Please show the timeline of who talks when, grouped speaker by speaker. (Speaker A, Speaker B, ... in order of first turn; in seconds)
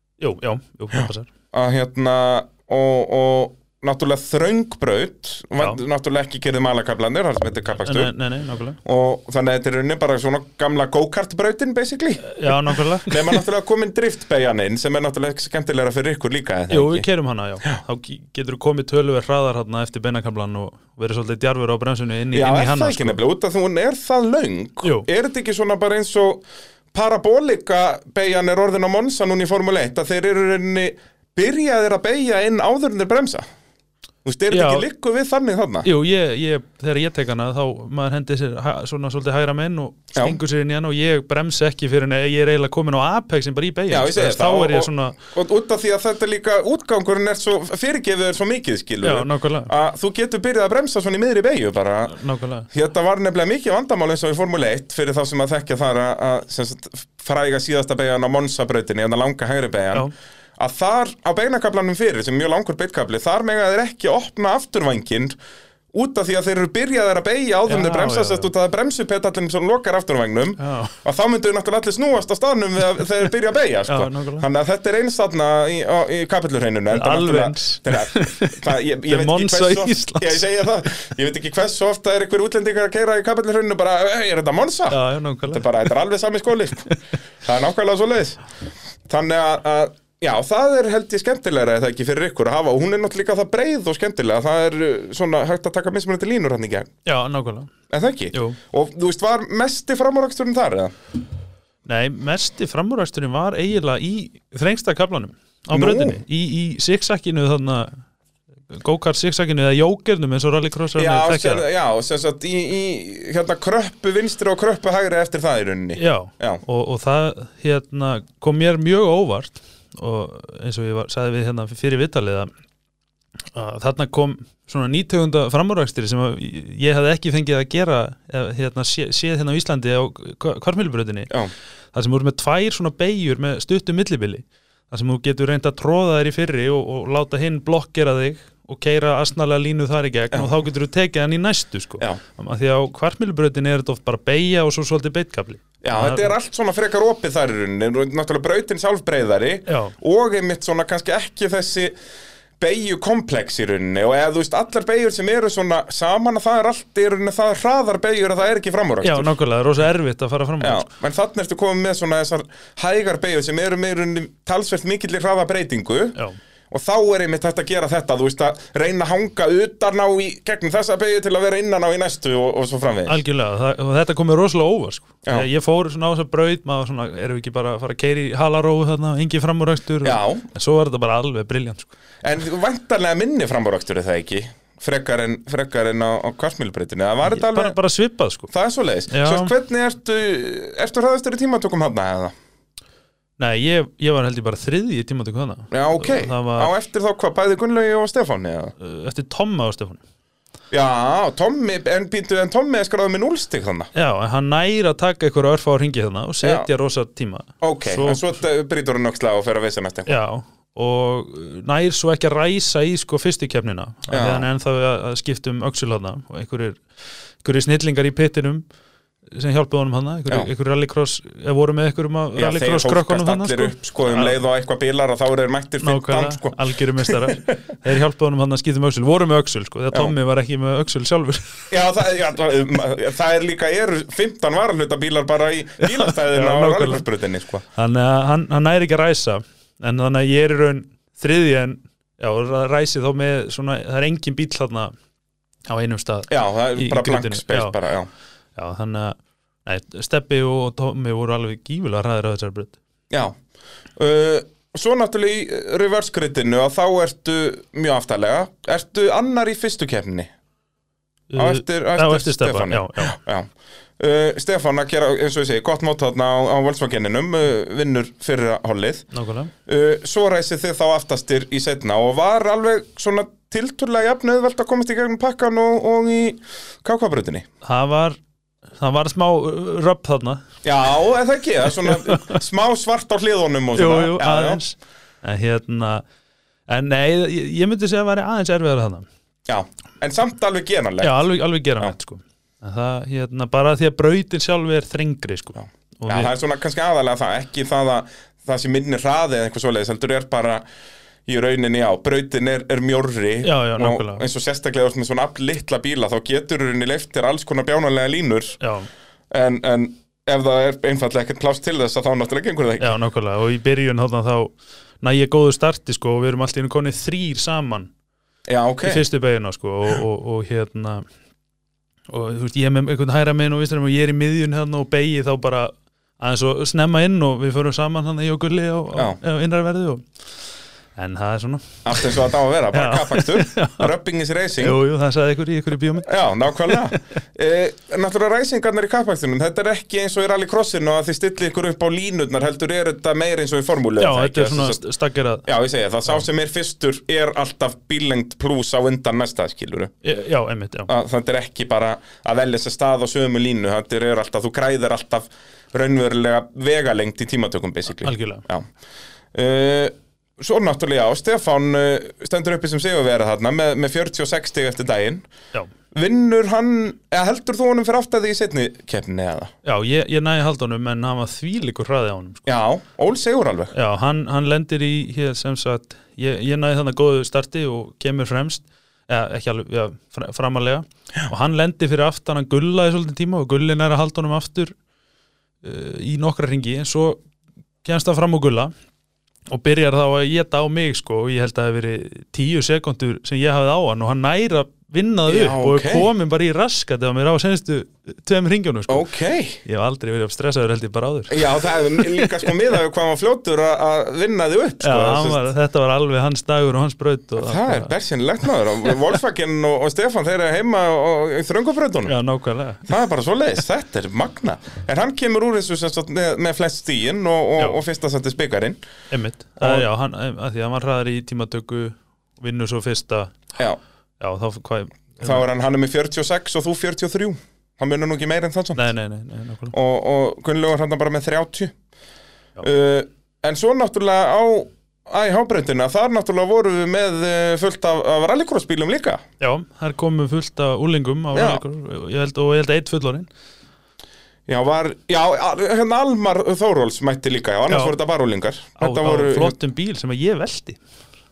Speaker A: 0.2-1.3, 7.8-8.8, 12.2-13.4, 16.7-23.2, 34.5-34.9, 35.8-45.2, 49.0-49.7, 52.1-52.7, 67.7-68.5, 70.6-70.9, 73.9-74.4, 76.9-80.6, 84.9-85.8, 97.0-97.7, 98.3-98.6, 101.8-108.0, 108.7-111.7, 116.0-122.5, 123.5-131.3, 131.9-146.3, 149.7-149.9, 159.0-160.9, 173.1-181.9, 187.2-188.5, 189.1-189.5, 193.4-196.7, 198.8-200.0, 203.9-208.3, 210.1-216.8, 217.4-218.6, 219.3-224.4, 225.8-231.7, 235.8-237.1, 237.7-244.9, 245.7-247.8, 248.6-252.8, 261.3-263.1, 269.1-269.5, 277.6-278.2, 278.8-280.4, 281.8-282.4, 283.8-286.0, 286.7-289.1, 291.0-296.3, 303.4-304.2, 308.6-308.9, 312.8-317.9, 318.8-321.1, 322.1-330.1, 330.9-333.9, 334.6-336.1, 336.6-336.9, 344.0-345.5, 350.0-350.9, 358.0-358.4, 369.6-372.4, 373.7-384.8, 385.6-387.2, 387.8-388.7, 389.5-399.1, 399.6-402.5, 404.8-407.9, 412.1-412.9, 419.1-423.4, 424.2-425.4, 428.8-429.7, 439.4-443.3, 447.7-447.9, 448.8-450.8
Speaker B: 0.9-8.1, 8.8-17.1, 22.3-33.5, 34.2-35.9, 43.9-52.1, 52.7-60.1, 60.6-65.3, 65.9-86.8, 87.4-88.4, 89.1-96.9, 97.9-100.9, 105.7-106.2, 111.0-116.6, 145.8-151.9, 152.6-159.3, 160.6-166.2, 166.7-173.2, 180.0-180.5, 182.2-187.8, 188.5-192.3, 195.7-198.7, 200.7-203.9, 206.4-206.7, 207.6-210.1, 214.1-214.4, 222.3-227.5, 231.7-237.6, 246.3-248.1, 253.1-253.3, 253.9-260.3, 261.4-269.1, 269.6-277.4, 280.6-284.6, 289.5-291.2, 296.1-300.6, 301.2-308.6, 309.3-313.0, 318.5-319.0, 331.8-334.8, 336.0-344.8, 345.4-349.9, 350.9-358.7, 359.3-365.2, 365.9-369.5, 372.5-373.7, 395.3-396.1, 398.9-399.6, 401.3-405.4, 407.4-412.1, 412.9-418.8, 419.6-419.9, 425.2-428.8, 429.7-431.7, 432.6-439.2, 441.3-441.6, 444.5-449.6